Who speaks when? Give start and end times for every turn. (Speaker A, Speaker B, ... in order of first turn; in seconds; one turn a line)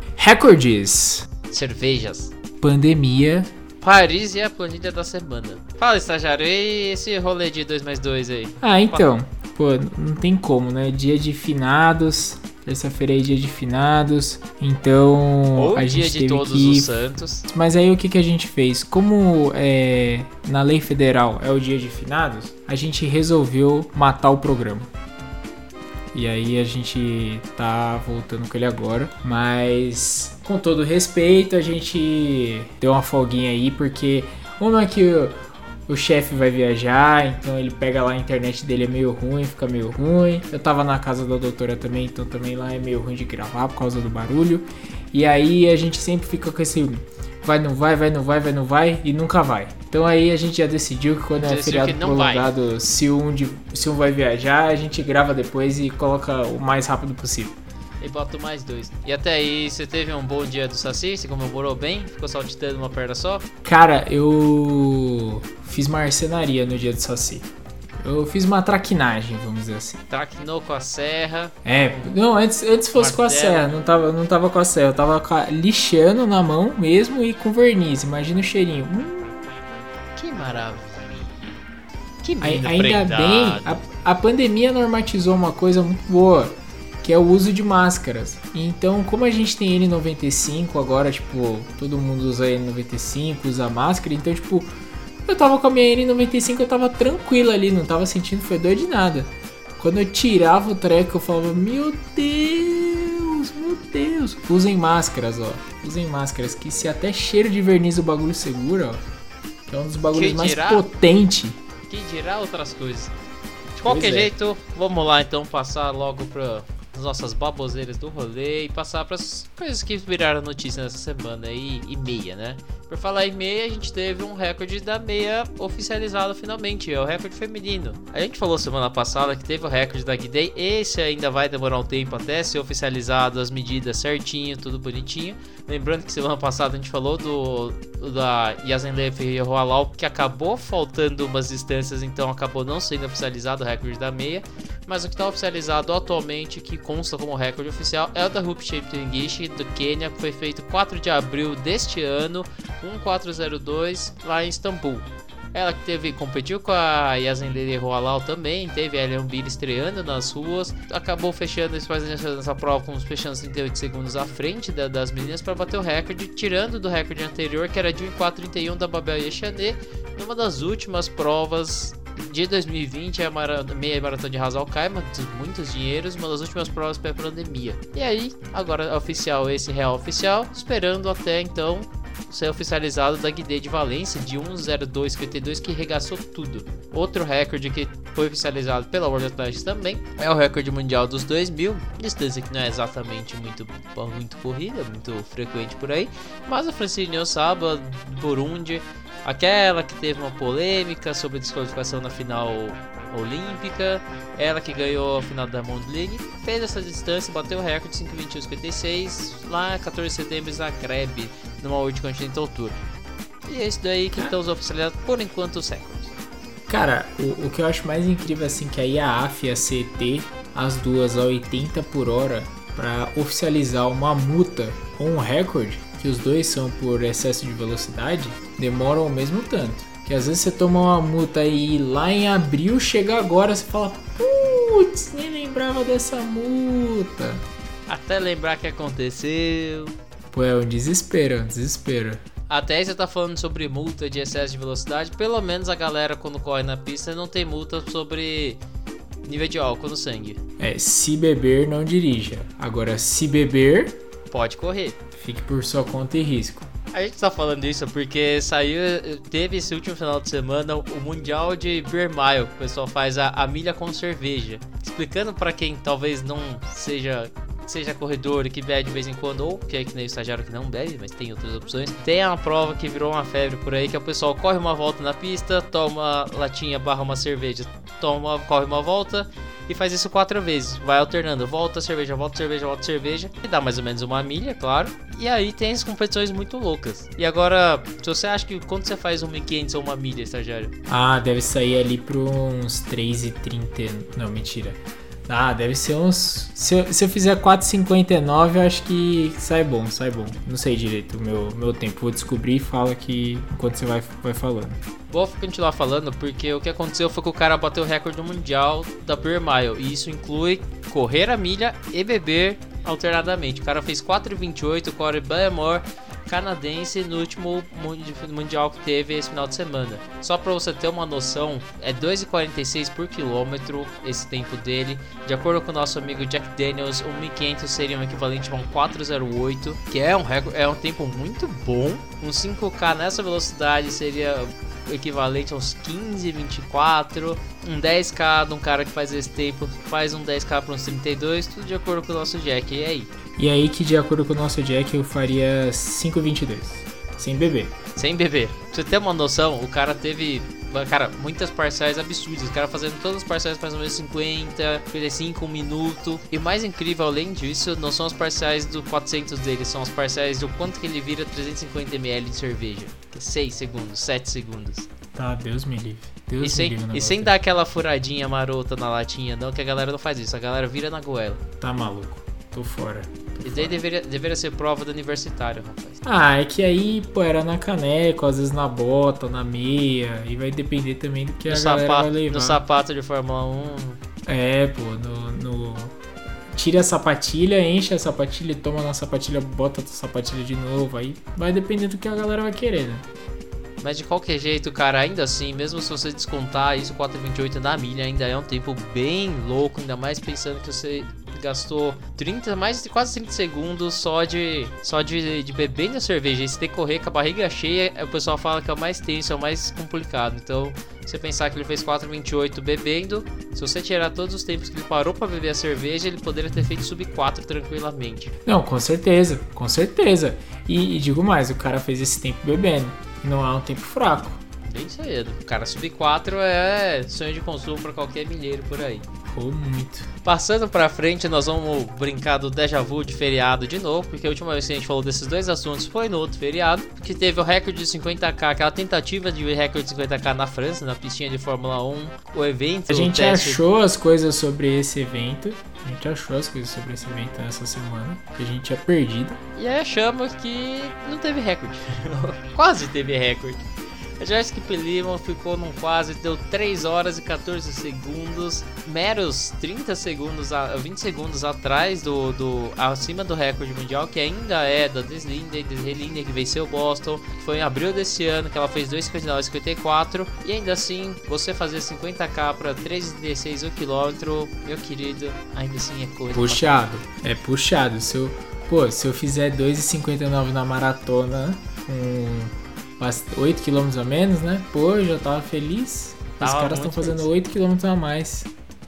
Speaker A: 0.2-1.3
Speaker B: 1.5-2.3
Speaker A: 2.6-3.5
Speaker B: 3.8-9.0
Speaker A: 8.6-24.9
Speaker B: 15.6-17.5
Speaker A: 26.1-35.4
Speaker A: 35.9-57.6
Speaker B: 51.4-52.5
Speaker B: 58.0-63.5
Speaker A: 63.6-67.5
Speaker A: 68.0-70.0
Speaker B: 70.1-72.1
Speaker A: 71.7-79.5
Speaker B: 73.0-73.7
Speaker B: 80.2-81.5
Speaker B: 82.2-83.8
Speaker A: 82.4-94.7
Speaker A: 95.3-109.0
Speaker A: 109.7-111.6
Speaker B: 110.1-110.8
Speaker B: 111.9-113.1
Speaker B: 113.8-212.8
Speaker A: 113.9-114.3
Speaker B: 213.5-216.2
Speaker A: 216.7-237.4
Speaker B: 237.9-239.9
Speaker A: 240.3-242.2
Speaker B: 242.5-248.6
Speaker B: 249.2-250.4
Speaker A: 250.6-254.0
Speaker B: 254.3-255.0
Speaker A: 255.2-256.7
Speaker B: 256.9-290.7
Speaker A: 290.9-304.8
Speaker B: 305.1-343.1
Speaker A: 343.4-347.7
Speaker B: 348.0-364.9
Speaker A: 365.1-367.4
Speaker B: 366.4-371.4
Speaker A: 371.6-373.8
Speaker B: 373.4-376.0
Speaker A: 376.0-382.6
Speaker B: 381.5-384.0
Speaker A: 384.3-386.0
Speaker A: 386.5-393.1
Speaker B: 393.8-418.3
Speaker A: 418.5-424.4
Speaker B: 424.7-429.1
Speaker A: 429.3-430.1
Speaker B: 430.2-443.6
Speaker A: 442.9-449.4
Speaker B: 449.6-476.7
Speaker A: 476.3-488.5
Speaker B: 486.4-487.3